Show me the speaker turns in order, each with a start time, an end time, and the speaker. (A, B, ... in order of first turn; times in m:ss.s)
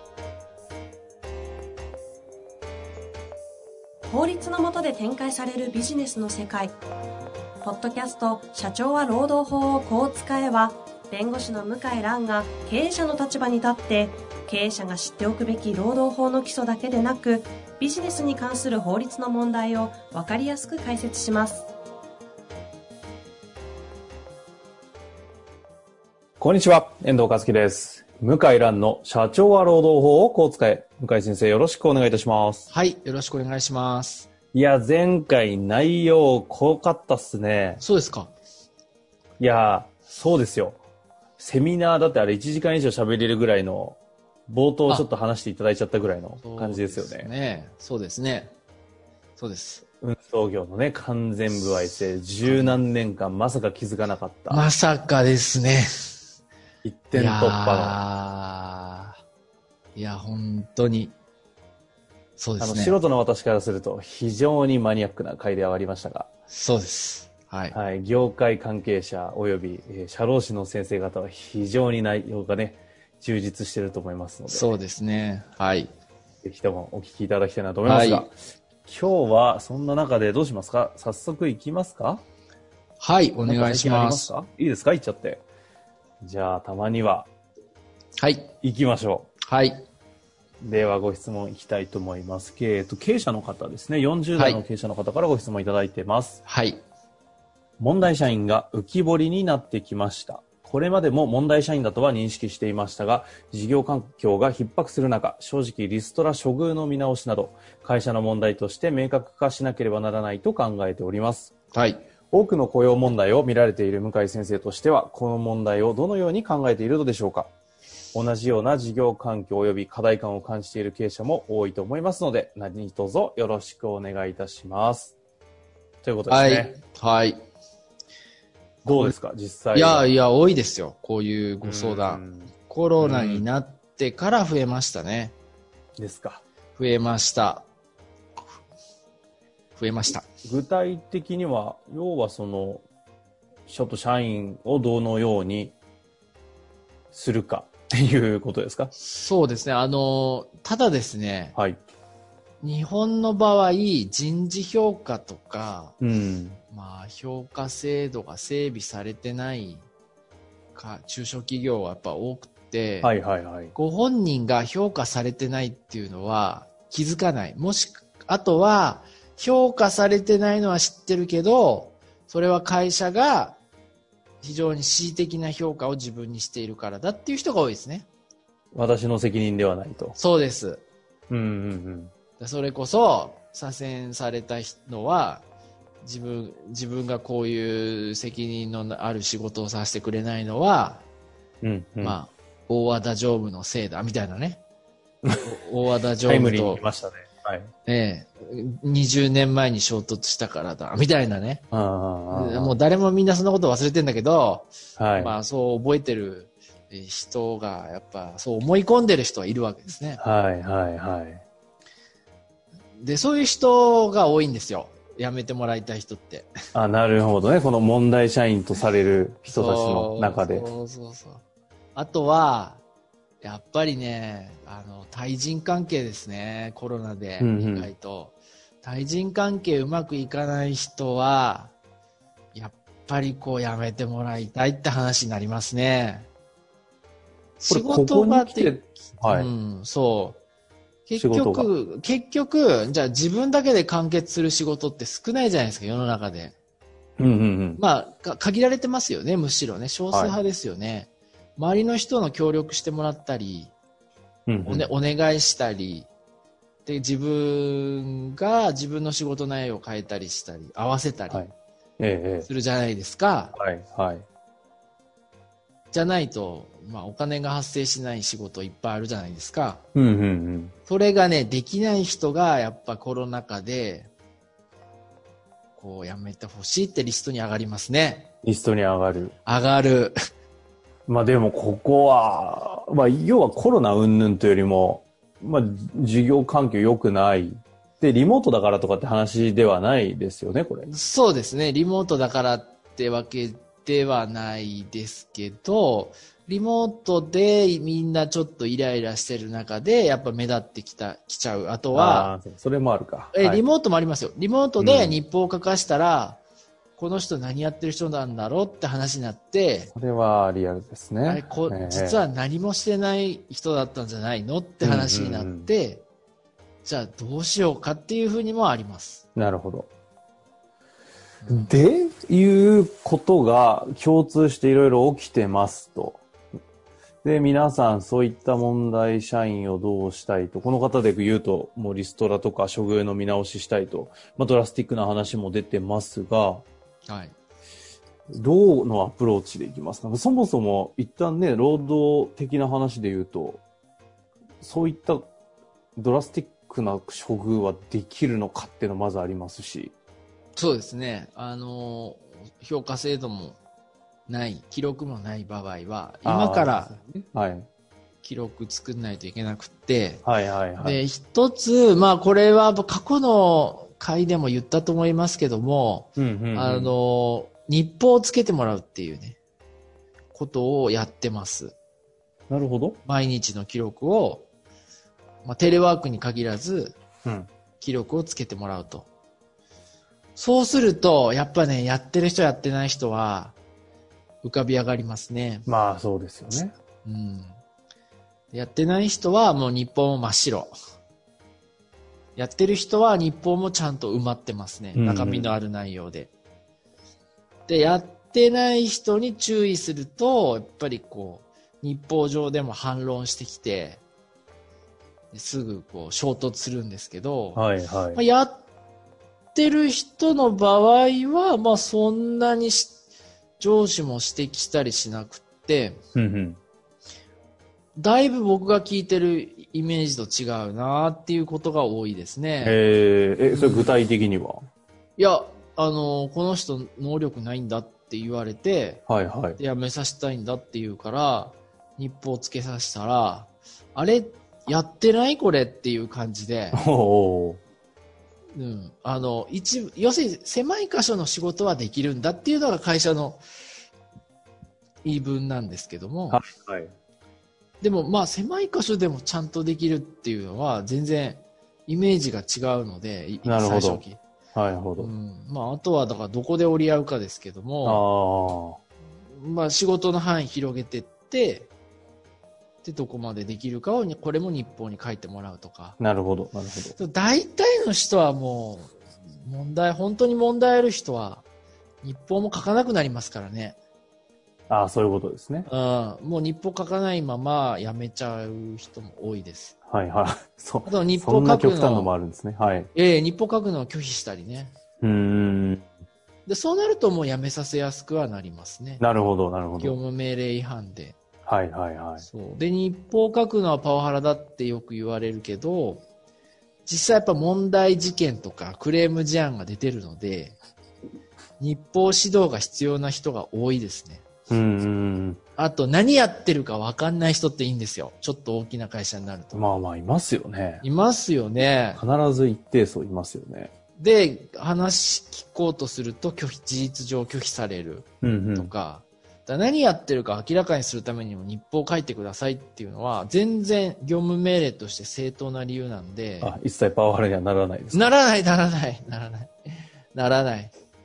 0:04.1-0:06.8 A
0:07.6-0:21.7 A
0:26.4-0:32.7 B
0:32.7-0:34.3 C
0:34.5-0:37.8 B
0:37.8-0:38.3 C
0:39.4-0:40.8 B
0:41.4-0:47.3 B
0:46.4-0:48.5 C
0:49.4-0:49.8 C
0:50.0-0:54.7 B
0:52.4-0:52.8 C
0:54.5-0:56.2 C
0:56.8-0:58.0 B
0:57.1-0:59.2 C
1:00.0-1:01.1 C
1:02.4-1:03.0 C
1:02.6-1:06.3 B
1:06.5-1:07.8 C
1:07.7-1:14.7 B
1:14.5-1:15.9 C
1:16.4-1:22.2 B
1:17.8-1:18.3 C
1:23.0-1:24.3 C
1:23.5-1:25.4 B
1:26.2-1:27.3 B
1:28.2-1:28.5 C
1:28.6-1:29.3 B
1:29.4-1:29.8 C
1:30.6-1:36.4 B
1:34.4-1:34.6 C
1:36.5-1:36.8 C
1:37.8-1:51.5 B
1:51.7-1:52.0 C
1:52.3-1:57.5 B
1:58.1-2:05.2 B
2:06.0-2:06.8 B
2:06.3-2:07.4 C
2:08.9-2:09.1 C
2:08.9-2:10.1 B
2:09.7-2:15.4 C
2:11.6-2:13.4 B
2:16.0-2:16.4 B
2:16.8-2:17.7 C
2:19.8-2:20.2 C
2:20.4-2:22.8 B
2:23.7-2:25.8 B
2:27.1-2:28.9 B
2:29.0-2:31.6 C
2:31.6-2:31.8 B
2:32.6-2:36.0 C
2:36.0-2:36.6 B
2:36.7-2:39.9 C
2:40.7-2:43.1 C
2:43.0-2:43.7 B
2:43.8-2:53.6 C
2:54.4-2:58.1 C
2:58.7-3:00.2 B
3:00.2-3:00.8 C
3:01.3-3:02.1 B
3:02.4-3:05.5 C
3:06.0-3:11.1 C
3:11.6-3:12.2 B
3:12.0-3:14.6 C
3:15.4-3:16.8 C
3:16.2-3:17.7 B
3:17.9-3:21.6 C
3:21.7-3:22.8 B
3:22.3-3:30.2 C
3:25.0-3:25.4 B
3:30.2-3:31.4 B
3:33.0-3:36.5 C
3:36.7-3:40.7 B
3:39.5-3:41.4 C
3:42.0-3:42.8 C
3:43.4-3:51.7 C
3:47.4-3:47.9 B
3:52.5-3:56.3 C
3:57.6-4:00.4 C
3:57.7-3:59.5 B
4:01.1-4:06.6 C
4:01.2-4:01.7 B
4:07.2-4:07.8 B
4:07.8-4:13.7 C
4:14.5-4:14.9 B
4:14.6-4:16.1 C
4:16.8-4:21.4 C
4:21.3-4:22.5 B
4:22.4-4:23.5 C
4:23.6-4:24.3 B
4:25.9-4:29.8 C
4:29.9-4:30.8 B
4:30.9-4:34.1 C
4:35.8-4:38.3 C
4:38.4-4:39.3 B
4:39.4-4:40.2 C
4:41.1-4:50.9 B
4:50.9-5:02.3 C
5:01.9-5:03.6 B
5:03.3-5:06.4 C
5:04.8-5:05.2 B
5:07.0-5:09.9 C
5:09.9-5:12.2 B
5:11.3-5:16.0 C
5:14.8-5:15.7 B
5:16.8-5:19.2 C
5:19.4-5:19.9 B
5:21.4-5:21.8 C
5:21.5-5:26.2 B
5:27.2-5:36.6 B
5:37.1-5:37.4 C
5:38.3-5:43.6 B
5:44.6-5:45.3 B
5:46.0-5:50.0 B
5:50.6-5:53.6 C
5:54.3-5:57.0 C
5:56.2-5:57.7 B
5:58.2-6:00.2 C
6:00.2-6:01.0 B
6:00.8-6:09.4 C
6:06.2-6:07.0 B
6:10.3-6:11.8 C
6:12.5-6:13.0 B
6:13.0-6:14.5 C
6:15.4-6:17.0 C
6:17.8-6:19.1 C
6:20.4-6:23.6 C
6:24.4-6:25.7 C
6:25.7-6:26.7 B
6:27.0-6:27.6 C
6:28.5-6:30.7 C
6:32.4-6:36.3 C
6:35.0-6:35.6 B
6:37.7-6:44.0 C
6:45.3-6:48.7 C
6:47.6-6:48.2 B
6:49.5-6:53.0 C
6:53.6-6:56.0 C
6:56.2-6:56.6 B
6:58.0-7:02.8 C
7:02.6-7:04.6 B
7:03.5-7:03.9 C
7:05.2-7:09.0 C
7:09.1-7:09.6 B
7:09.6-7:16.8 C
7:16.7-7:17.6 B
7:18.6-7:23.4 C
7:25.0-7:26.4 C
7:26.3-7:26.9 B
7:27.8-7:34.2 C
7:33.4-7:34.0 B
7:34.6-7:35.1 B
7:35.0-7:38.0 C
7:37.8-7:38.8 B
7:39.3-7:41.7 C
7:42.8-7:46.0 C
7:46.0-7:47.0 B
7:47.0-7:51.4 C
7:52.0-7:53.8 C
7:54.7-7:55.7 B
7:55.7-7:59.8 C
7:59.9-8:02.9 B
8:00.9-8:02.1 C
8:02.9-8:04.7 C
8:05.0-8:05.9 B
8:06.5-8:09.0 C
8:09.0-8:10.0 B
8:09.8-8:11.2 C
8:11.4-8:12.3 B
8:12.2-8:16.0 C
8:16.9-8:20.6 C
8:21.6-8:24.2 C
8:24.5-8:25.4 B
8:25.6-8:29.7 C
8:29.5-8:30.8 B
8:30.8-8:32.0 C
8:32.0-8:33.7 B
8:34.0-8:46.6 C
8:38.2-8:38.7 B
8:46.4-8:48.1 B
8:47.9-8:49.5 C
8:50.1-8:50.7 C